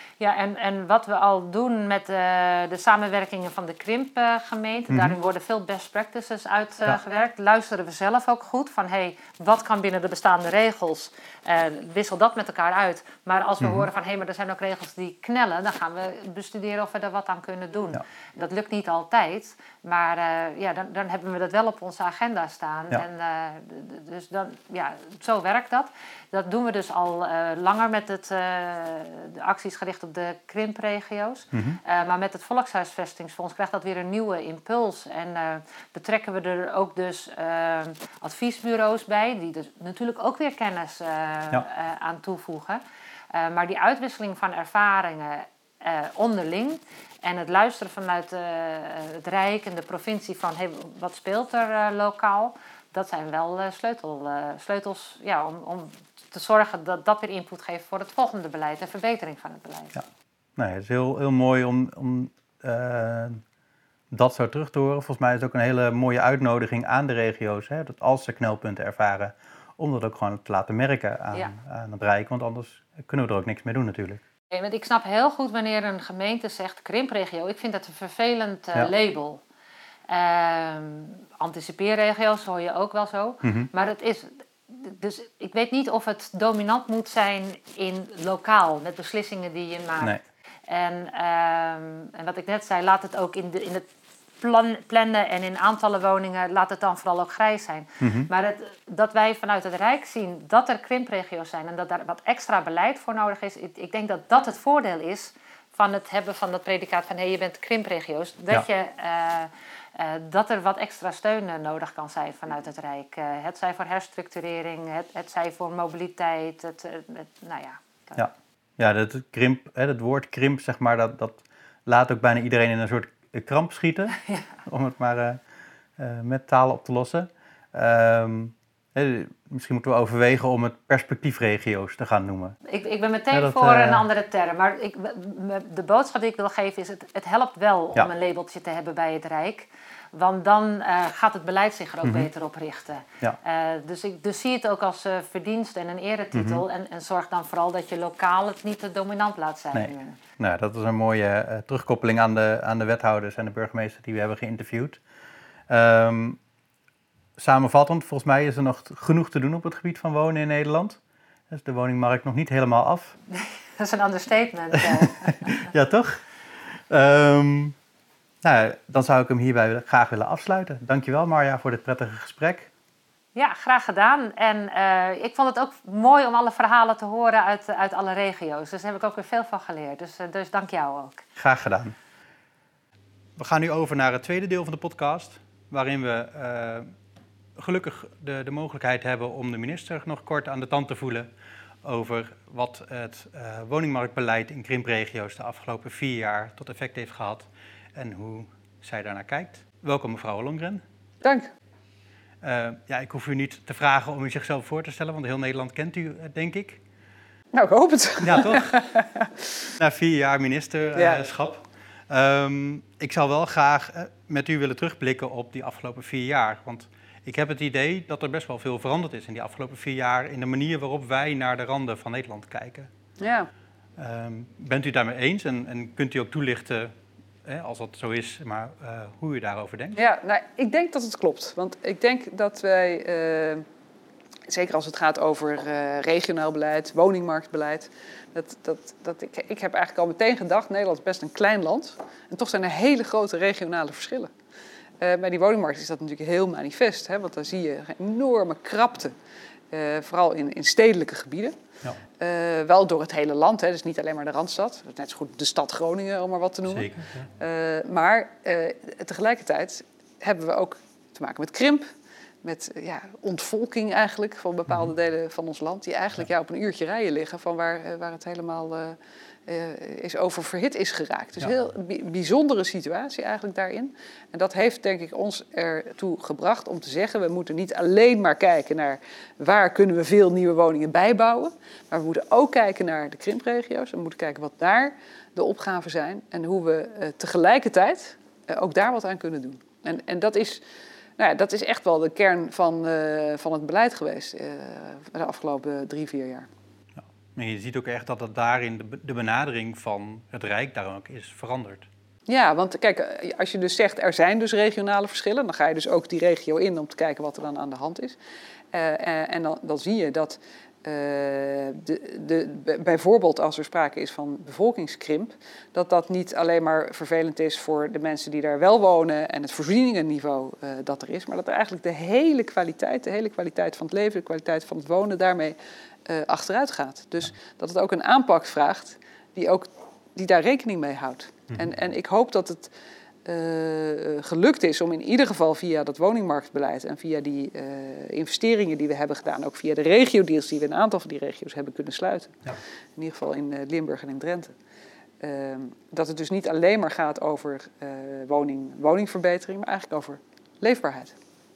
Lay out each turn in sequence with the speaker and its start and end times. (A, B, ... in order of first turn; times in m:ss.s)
0:00.2-1:00.0 A
0:04.9-0:05.2 B
0:13.6-0:13.9 B
0:31.5-0:31.8 B
1:00.6-1:03.4 B
1:04.1-1:14.2 B
1:14.5-1:19.4 A
1:20.1-1:30.2 A
1:23.4-1:23.7 B
1:30.7-1:33.9 A
1:34.4-1:58.2 A
1:38.0-1:38.3 B
1:58.2-2:05.4 B
2:04.2-2:04.5 A
2:06.0-2:12.6 B
2:12.7-2:30.2 A
2:13.3-2:14.1 B
2:22.0-2:22.3 B
2:26.3-2:26.6 B
2:29.7-2:35.0 B
2:35.7-2:36.4 B
2:37.4-2:43.2 B
2:43.3-2:45.7 A
2:44.8-2:47.8 B
2:48.4-2:52.7 B
2:53.4-3:01.2 A
3:01.4-3:02.0 B
3:03.4-3:06.9 B
3:07.6-3:11.3 B
3:11.8-3:20.8 B
3:21.2-3:21.5 C
3:22.4-3:26.8 B
3:27.5-3:29.5 C
3:28.2-3:28.8 B
3:29.8-3:42.9 B
3:31.0-3:31.2 C
3:43.2-3:43.5 C
3:44.0-3:46.9 B
3:47.4-3:50.0 B
3:50.0-3:53.6 C
3:54.5-4:04.3 C
4:05.0-4:09.1 C
4:09.7-4:11.6 C
4:12.2-4:21.9 C
4:16.7-4:17.3 B
4:22.4-4:50.6 C
4:51.2-4:56.5 C
4:57.0-5:01.9 B
5:02.3-5:08.2 C
5:08.7-5:32.7 C
5:33.2-5:44.5 C
5:45.2-5:51.1 C